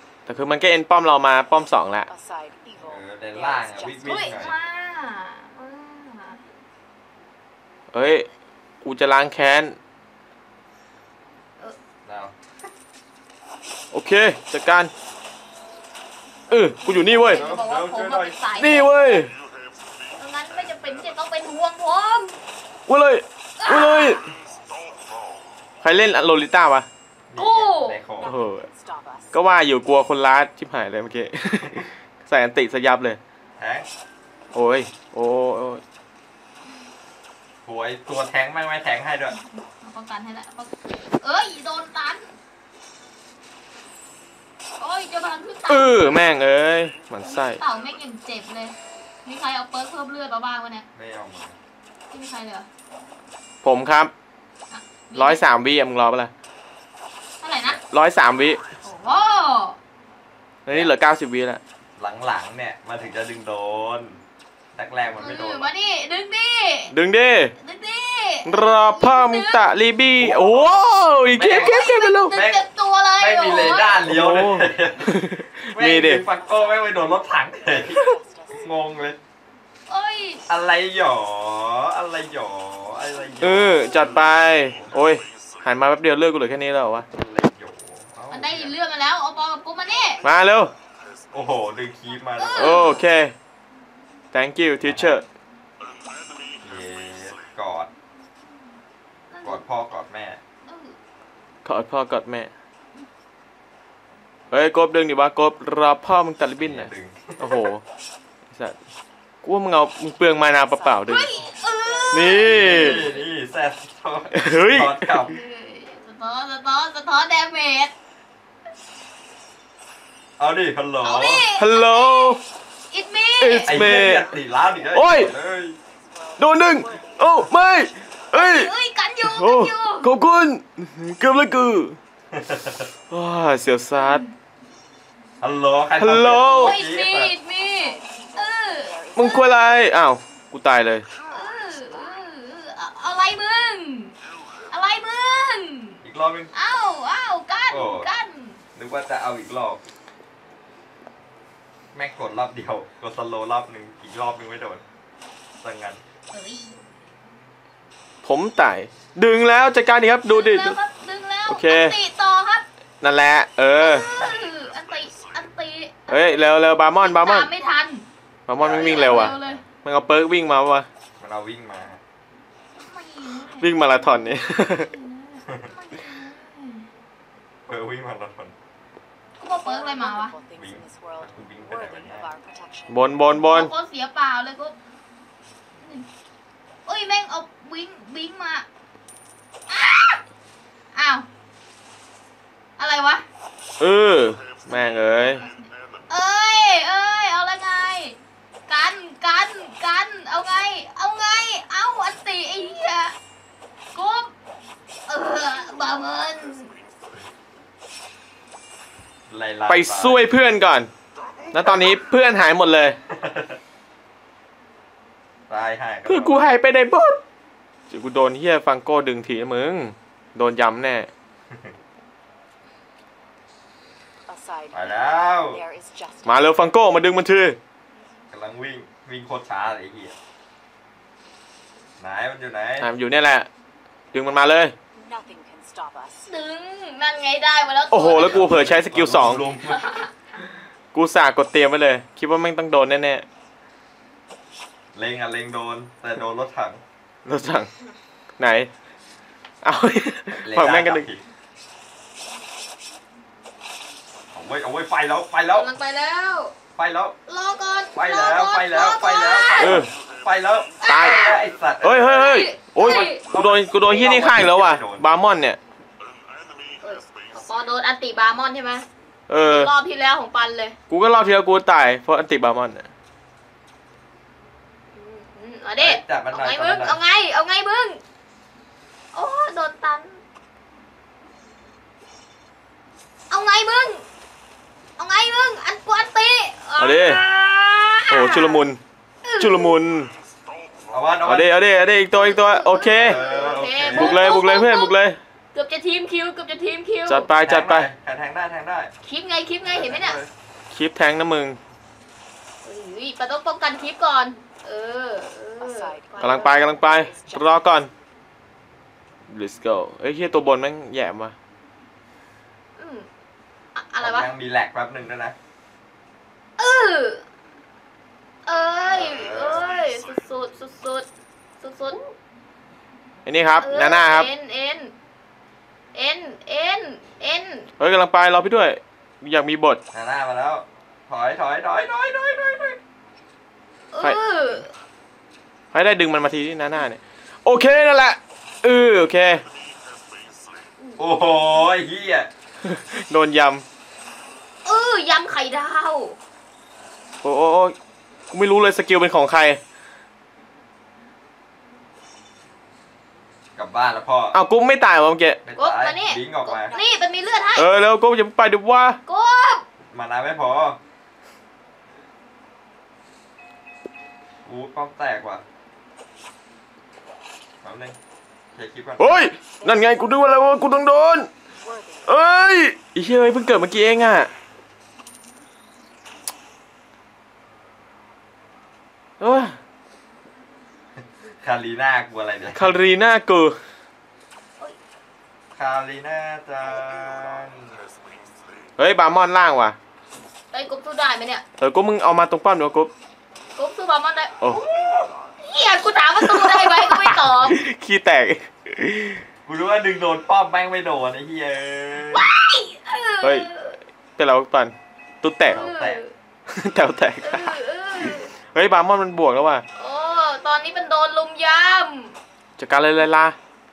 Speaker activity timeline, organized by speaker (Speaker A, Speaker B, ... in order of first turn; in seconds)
Speaker A: 0.3-2.1, 7.9-8.3, 8.8-9.8, 13.9-14.9, 16.5-17.5, 18.6-19.3, 22.9-24.2, 25.8-26.9, 28.3-28.7, 29.3-33.2, 34.5-35.8, 45.7-47.6, 53.6-54.1, 55.1-56.3, 57.8-58.6, 60.7-61.6, 66.9-67.5, 68.5-72.4, 74.0-76.2, 83.4-87.1, 90.2-90.7, 92.6-93.3, 94.3-95.2, 101.7-102.5, 104.5-107.8, 108.5-108.8, 109.4-111.3, 112.1-113.0, 114.3-115.1, 121.6-122.4, 123.4-124.3, 124.9-125.3, 126.4-128.7, 129.2-132.0, 133.1-134.2, 136.0-136.8, 139.2-141.1, 158.2-160.8, 161.5-161.9, 163.0-164.1, 166.1-167.5, 168.5-170.9, 173.6-174.9, 182.9-183.7, 193.8-195.5, 209.7-210.9, 211.5-213.0, 216.1-217.2, 217.9-221.1, 226.2-227.6, 232.8-233.5, 234.1-234.7, 237.9-239.5, 240.9-243.2, 247.3-247.7, 248.4-248.7, 249.6-251.1, 259.6-259.9, 260.8-261.2, 261.8-265.6, 269.3-269.7, 270.9-272.9, 286.8-287.2, 288.1-288.8, 289.4-290.1, 291.2-293.2, 293.9-295.2, 297.1-297.9, 300.7-301.6, 306.2-307.9, 309.3-311.4, 323.2-324.3, 327.8-329.8, 335.7-339.4, 342.6-343.6, 347.2-347.8, 348.3-349.6, 354.3-355.4, 357.6-359.0, 369.0-371.3, 372.1-374.3, 379.2-379.6, 382.6-383.6, 388.8-389.8, 391.6-392.9, 396.3-399.2, 403.2-403.5, 404.2-405.7, 406.5-409.6, 412.6-413.4
Speaker B: 2.1-4.5, 28.2-29.5, 76.0-78.7, 110.5-113.2, 124.4-125.2, 125.8-127.6, 137.6-139.9, 141.1-142.3, 179.6-183.3, 224.3-226.7, 234.9-236.3, 305.6-307.9, 356.6-357.6, 369.6-370.4, 371.5-372.1
Speaker C: 2.8-4.6, 12.1-12.3, 17.2-18.4, 27.3-28.3, 33.6-33.9, 37.6-39.4, 51.0-51.6, 62.0-64.2, 64.8-65.7, 70.2-70.7, 71.3-79.2, 80.5-84.9, 87.1-88.8, 91.3-93.0, 94.8-95.2, 96.6-97.9, 99.4-100.4, 106.6-107.6, 112.3-115.4, 120.4-121.5, 123.6-125.8, 132.3-132.9, 135.4-137.3, 146.0-146.5, 147.7-148.1, 148.8-149.8, 151.9-154.8, 155.6-156.0, 168.6-169.7, 171.2-172.0, 177.7-178.6, 180.6-182.3, 209.3-210.2, 213.1-213.6, 215.5-216.5, 221.5-221.7, 224.7-225.6, 228.3-230.2, 232.0-232.9, 238.1-239.8, 244.9-246.8, 250.4-251.2, 254.3-255.7, 256.8-257.2, 257.9-265.1, 275.8-277.0, 290.9-291.6, 292.9-294.4, 297.4-298.9, 299.6-300.3, 314.0-315.4, 318.9-319.7, 329.9-332.8, 341.0-342.3, 353.6-354.4, 355.4-356.7, 359.9-360.8, 364.4-365.4, 367.6-368.0, 368.5-369.2, 381.0-382.8, 385.5-387.8, 399.5-402.3, 405.5-406.0
Speaker D: 4.0-6.4, 16.8-19.2, 20.2-22.4, 23.6-24.3, 27.4-28.3, 39.3-42.3, 44.8-46.2, 47.2-50.9, 52.1-52.7, 54.7-55.5, 57.4-57.8, 58.8-59.8, 65.2-66.9, 67.6-69.7, 71.6-74.0, 79.9-80.4, 88.3-90.2, 92.4-93.0, 99.3-99.6, 100.7-101.0, 111.1-113.2, 115.2-117.9, 121.0-123.8, 128.3-130.1, 133.9-134.3, 136.4-139.7, 141.3-144.2, 144.7-146.0, 146.5-148.6, 156.3-156.8, 160.3-162.7, 163.8-166.4, 167.0-168.1, 168.6-169.6, 172.8-173.8, 174.5-176.9, 179.4-180.3, 183.3-184.8, 185.8-186.1, 186.9-188.7, 189.7-190.2, 190.9-191.3, 192.8-193.2, 196.1-203.2, 203.9-204.3, 205.1-206.8, 236.3-238.6, 239.6-240.1, 255.5-256.6, 257.3-259.9, 260.8-261.4, 262.0-263.3, 266.8-270.8, 274.9-278.0, 279.1-280.2, 283.3-284.1, 285.0-288.6, 289.2-289.8, 292.1-294.9, 295.5-297.3, 299.0-300.2, 302.6-306.8, 312.8-313.1, 313.8-314.3, 316.6-317.2, 318.4-321.1, 321.6-322.1, 323.6-324.9, 325.9-327.7, 333.9-334.7, 340.8-341.2, 344.6-346.2, 355.6-357.7, 359.1-359.6, 390.5-391.4, 393.6-397.6, 402.1-403.8, 405.5-406.1, 407.2-408.3, 409.8-412.2